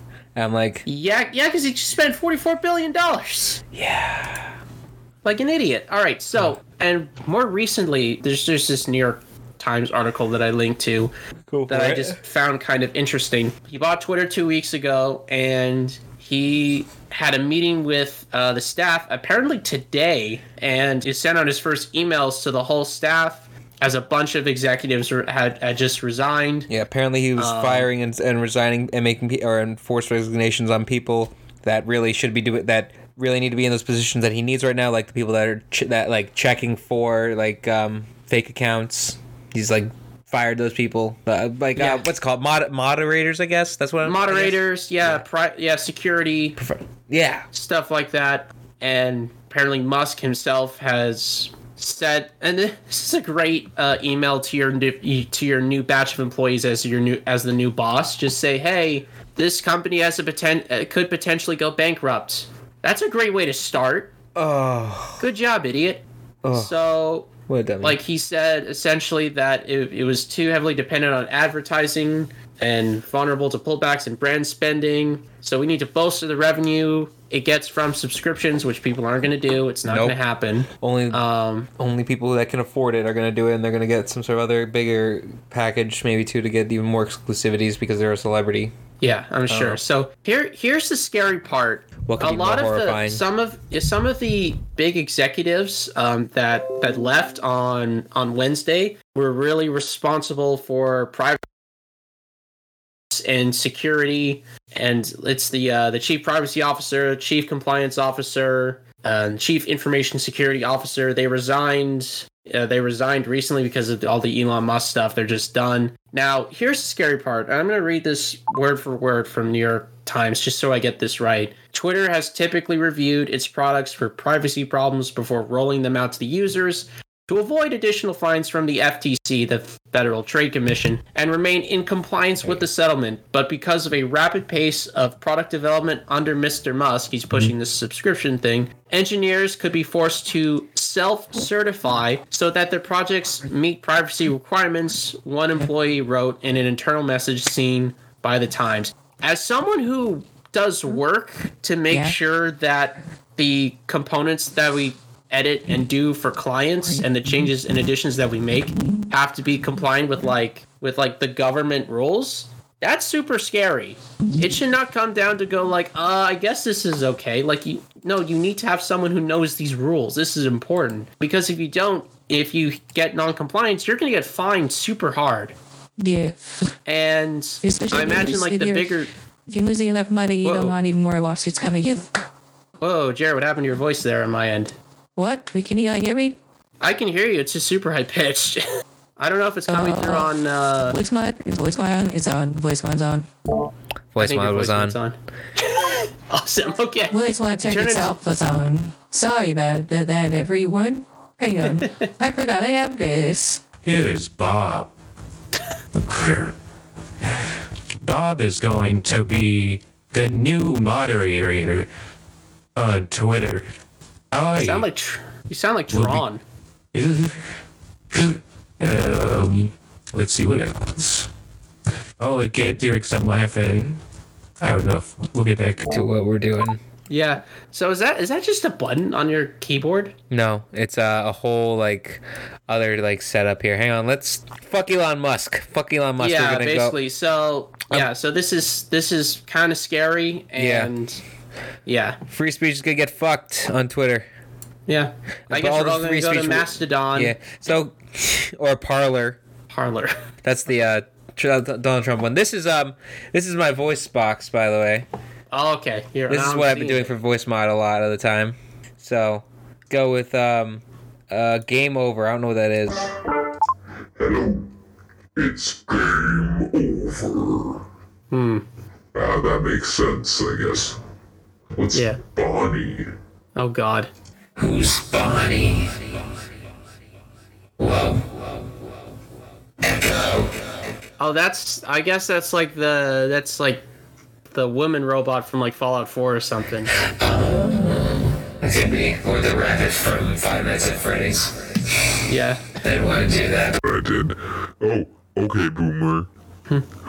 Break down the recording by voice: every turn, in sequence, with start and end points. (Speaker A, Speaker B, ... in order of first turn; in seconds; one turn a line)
Speaker A: 0.3-0.8
Speaker B: 0.9-3.6
Speaker A: 3.7-4.5
Speaker B: 5.2-11.1
Speaker A: 11.5-12.2
Speaker B: 11.7-26.7
Speaker A: 26.7-45.2
Speaker B: 27.4-27.9
Speaker B: 41.8-42.0
Speaker B: 44.0-46.6
Speaker A: 46.6-47.5
Speaker B: 47.5-64.2
Speaker A: 64.3-65.3
Speaker B: 65.2-67.3
Speaker A: 66.4-66.7
Speaker A: 67.5-68.0
Speaker B: 67.8-81.7
Speaker A: 79.9-80.2
Speaker A: 80.8-81.2
Speaker A: 81.8-88.7
Speaker B: 89.0-101.5
Speaker A: 89.5-89.8
Speaker A: 92.1-93.2
Speaker B: 103.1-175.6
Speaker C: 176.0-176.7
Speaker B: 176.8-179.1
Speaker C: 177.6-178.9
Speaker C: 179.5-182.1
Speaker B: 180.4-180.7
Speaker B: 182.8-184.8
Speaker C: 185.2-186.4
Speaker B: 186.8-188.7
Speaker B: 189.2-191.0
Speaker C: 189.7-190.3
Speaker C: 190.9-193.3
Speaker A: 194.1-195.0
Speaker B: 194.2-198.1
Speaker C: 197.1-203.7
Speaker D: 203.8-204.9
Speaker D: 205.9-206.5
Speaker D: 208.0-211.9
Speaker D: 212.8-213.7
Speaker D: 214.3-214.8
Speaker B: 214.6-216.4
Speaker D: 215.9-216.2
Speaker D: 216.9-217.4
Speaker D: 218.1-221.3
Speaker D: 222.2-224.0
Speaker D: 224.6-225.9
Speaker A: 225.9-226.8
Speaker B: 227.1-230.2
Speaker A: 230.3-237.0
Speaker B: 236.2-241.2
Speaker A: 240.6-240.9
Speaker B: 241.9-242.2
Speaker A: 242.3-244.3
Speaker B: 244.9-247.4
Speaker A: 245.5-249.4
Speaker B: 249.7-250.2
Speaker A: 250.4-255.1
Speaker B: 255.5-257.1
Speaker A: 256.3-263.1
Speaker E: 264.2-264.7
Speaker E: 265.4-267.8
Speaker B: 268.3-268.6
Speaker E: 269.1-271.0
Speaker E: 271.8-273.1
Speaker B: 271.9-272.2
Speaker B: 273.6-274.1
Speaker A: 274.6-276.0
Speaker A: 277.8-278.4
Speaker A: 279.8-280.6
Speaker B: 281.2-283.9
Speaker B: 284.5-286.9
Speaker A: 287.0-292.0
Speaker B: 292.3-292.8
Speaker A: 292.8-293.8
Speaker E: 293.8-296.3